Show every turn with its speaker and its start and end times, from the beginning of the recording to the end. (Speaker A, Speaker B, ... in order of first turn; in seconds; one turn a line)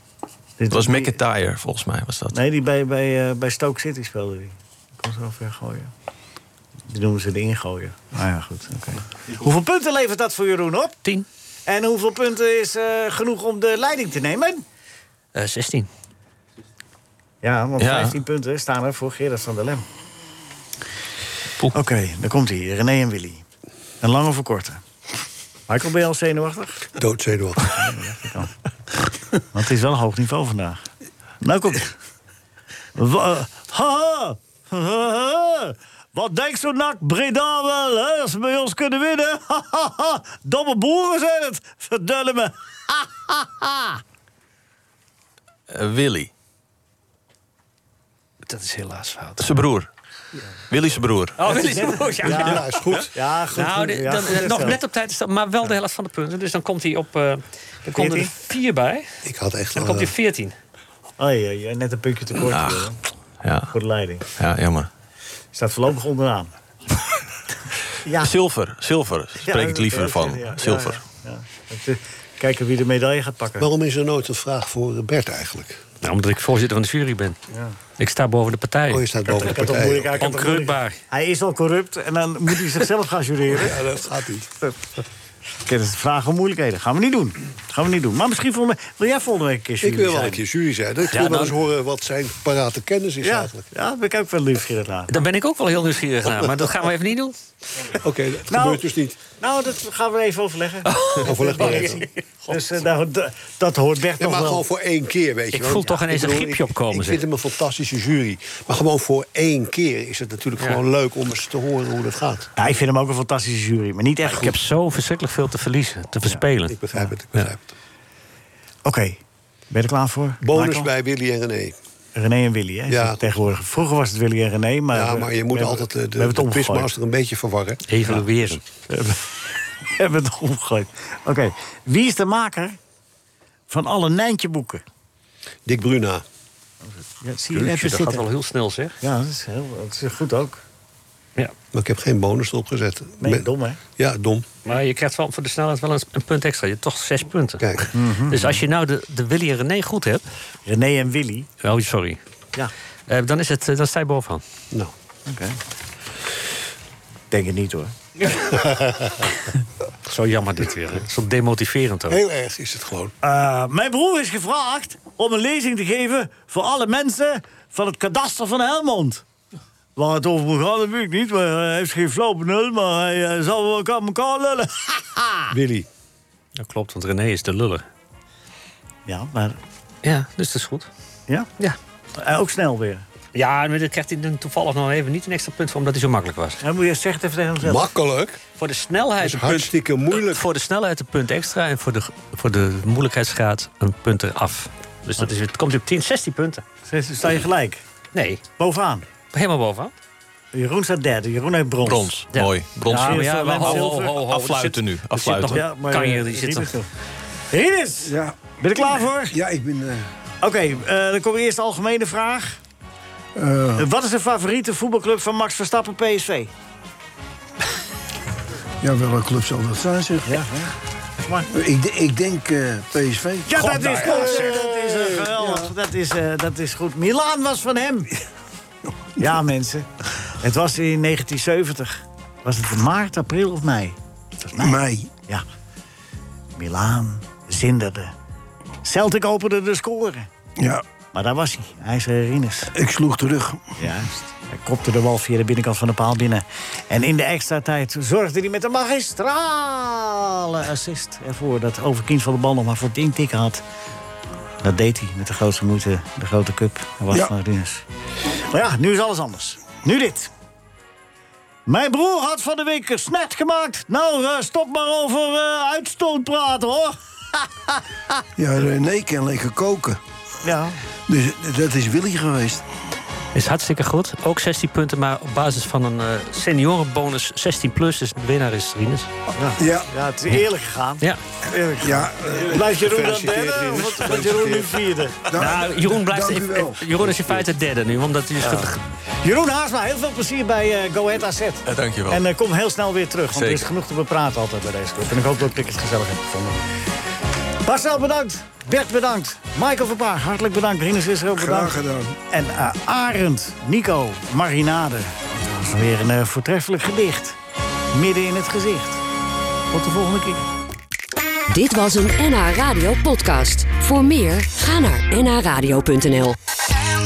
Speaker A: 0.6-1.1
Speaker B: 0.7-2.4
Speaker A: 2.3-5.9
Speaker A: 6.9-11.0
Speaker A: 11.7-14.6
Speaker C: 15.3-15.9
Speaker A: 17.4-19.8
Speaker B: 17.8-18.1
Speaker A: 21.7-23.4
Speaker A: 24.0-24.8
Speaker A: 25.7-26.9
Speaker D: 27.0-27.7
Speaker A: 27.6-28.5
Speaker A: 29.5-30.8
Speaker A: 31.4-31.9
Speaker A: 33.0-44.0
Speaker B: 45.7-46.3
Speaker C: 48.5-49.5
Speaker B: 49.4-49.9
Speaker B: 50.7-51.4
Speaker C: 51.4-52.8
Speaker A: 51.4-54.8
Speaker D: 52.2-53.1
Speaker C: 53.5-59.1
Speaker A: 57.9-58.3
Speaker D: 59.2-60.1
Speaker C: 59.7-60.5
Speaker A: 61.2-63.0
Speaker B: 62.5-63.7
Speaker A: 63.7-64.2
Speaker B: 64.4-64.9
Speaker A: 65.5-66.5
Speaker A: 68.0-68.3
Speaker B: 68.2-71.0
Speaker A: 69.4-73.7
Speaker D: 73.6-75.8
Speaker C: 76.0-77.4
Speaker A: 77.5-77.8
Speaker C: 78.0-79.0
Speaker D: 78.9-80.2
Speaker A: 79.2-83.8
Speaker C: 80.2-81.0
Speaker D: 83.5-84.5
Speaker A: 85.6-90.4
Speaker D: 89.8-93.7
Speaker C: 91.1-91.5
Speaker A: 93.2-95.1
Speaker C: 95.1-97.3
Speaker D: 98.0-99.2
Speaker A: 98.5-104.6
Speaker C: 100.8-102.7
Speaker D: 101.1-102.0
Speaker D: 104.2-112.5
Speaker C: 105.5-107.2
Speaker A: 112.5-114.6
Speaker C: 114.2-116.8
Speaker D: 116.7-117.6
Speaker A: 118.8-120.9
Speaker D: 120.4-121.7
Speaker A: 122.1-126.9
Speaker D: 122.9-123.2
Speaker D: 124.9-127.8
Speaker C: 127.9-128.6
Speaker A: 128.9-129.4
Speaker A: 129.9-132.8
Speaker A: 133.7-134.8
Speaker D: 135.7-136.2
Speaker A: 137.2-138.2
Speaker C: 137.5-138.9
Speaker A: 139.0-140.6
Speaker D: 141.7-144.4
Speaker A: 143.2-143.8
Speaker C: 144.6-147.6
Speaker D: 147.6-147.9
Speaker A: 147.9-148.6
Speaker C: 148.3-150.2
Speaker A: 150.7-151.5
Speaker C: 151.6-152.2
Speaker C: 153.1-154.4
Speaker A: 155.3-155.6
Speaker A: 157.3-157.9
Speaker C: 160.1-162.2
Speaker D: 162.1-163.1
Speaker A: 163.2-169.2
Speaker A: 169.9-175.5
Speaker D: 175.5-175.8
Speaker C: 176.6-177.8
Speaker A: 179.1-179.6
Speaker C: 180.0-180.9
Speaker A: 182.2-183.0
Speaker C: 183.3-186.6
Speaker A: 186.6-187.9
Speaker D: 187.6-188.4
Speaker C: 188.6-196.6
Speaker D: 189.2-190.4
Speaker A: 196.9-197.8
Speaker C: 198.1-198.4
Speaker A: 198.6-199.1
Speaker C: 199.3-199.9
Speaker A: 200.5-202.1
Speaker B: 201.8-205.6
Speaker C: 202.3-206.7
Speaker A: 202.9-204.2
Speaker A: 205.5-206.9
Speaker A: 207.5-209.3
Speaker E: 208.0-208.4
Speaker E: 209.3-210.1
Speaker A: 210.4-212.6
Speaker E: 213.3-213.9
Speaker A: 213.8-216.5
Speaker E: 218.8-220.4
Speaker A: 220.2-221.5
Speaker E: 221.5-225.7
Speaker A: 223.5-228.1
Speaker A: 229.2-229.9
Speaker A: 230.4-235.4
Speaker E: 234.6-235.1
Speaker A: 236.6-238.1
Speaker A: 238.8-240.3
Speaker E: 240.6-240.8
Speaker A: 241.1-242.7
Speaker E: 242.7-243.6
Speaker A: 243.8-253.6
Speaker A: 254.6-257.8
Speaker A: 258.5-260.3
Speaker A: 261.6-267.0
Speaker E: 268.4-270.0
Speaker A: 270.4-270.8
Speaker E: 271.1-272.6
Speaker C: 273.3-279.1
Speaker A: 279.4-285.3
Speaker E: 279.6-279.9
Speaker E: 281.8-282.6
Speaker D: 282.3-284.9
Speaker E: 285.3-286.8
Speaker C: 285.3-288.8
Speaker A: 289.2-296.6
Speaker B: 291.6-292.2
Speaker B: 293.3-293.7
Speaker A: 297.6-301.8
Speaker E: 301.3-302.2
Speaker A: 302.3-307.4
Speaker A: 307.9-309.0
Speaker A: 309.7-310.4
Speaker F: 311.5-316.4